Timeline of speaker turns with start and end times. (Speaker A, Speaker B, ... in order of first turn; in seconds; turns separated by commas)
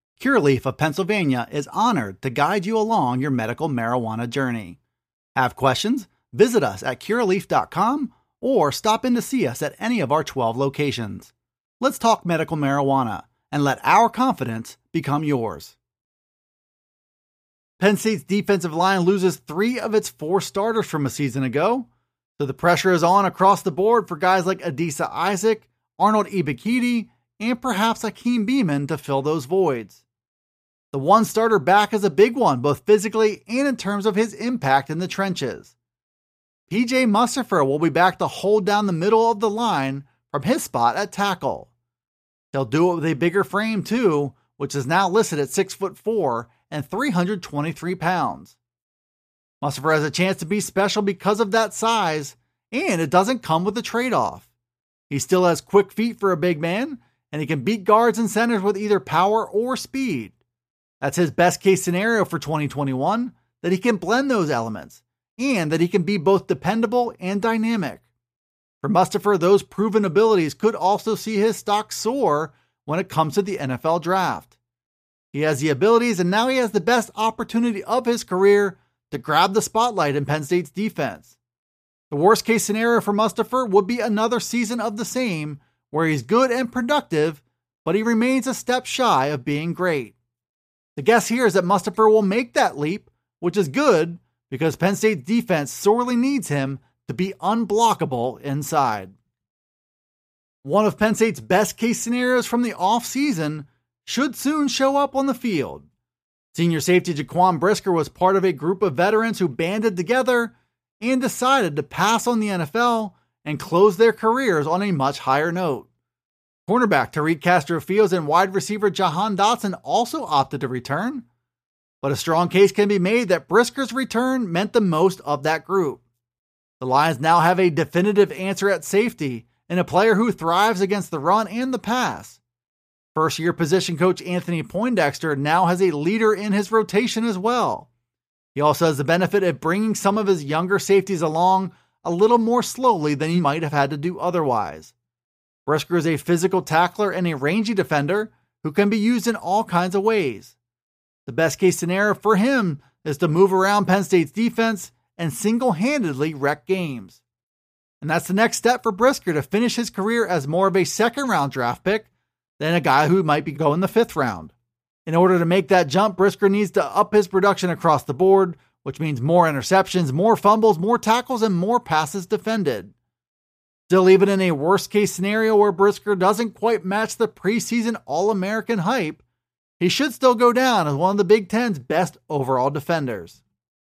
Speaker A: 0.2-4.8, Speaker A: 5.3-15.7, Speaker A: 17.8-21.9, Speaker A: 22.4-30.0, Speaker A: 30.9-35.7, Speaker A: 36.7-41.7, Speaker A: 42.5-48.6, Speaker A: 49.6-54.5, Speaker A: 55.1-60.3, Speaker A: 61.0-68.0, Speaker A: 68.8-74.5, Speaker A: 75.3-81.3, Speaker A: 82.1-90.1, Speaker A: 91.0-99.1, Speaker A: 100.6-105.8, Speaker A: 106.5-115.9, Speaker A: 116.7-121.2, Speaker A: 122.0-126.0, Speaker A: 126.8-132.4, Speaker A: 133.1-137.9, Speaker A: 138.5-144.9, Speaker A: 145.7-150.5, Speaker A: 151.2-157.2, Speaker A: 158.0-164.5, Speaker A: 165.1-172.9, Speaker A: 173.9-179.2, Speaker A: 179.8-183.4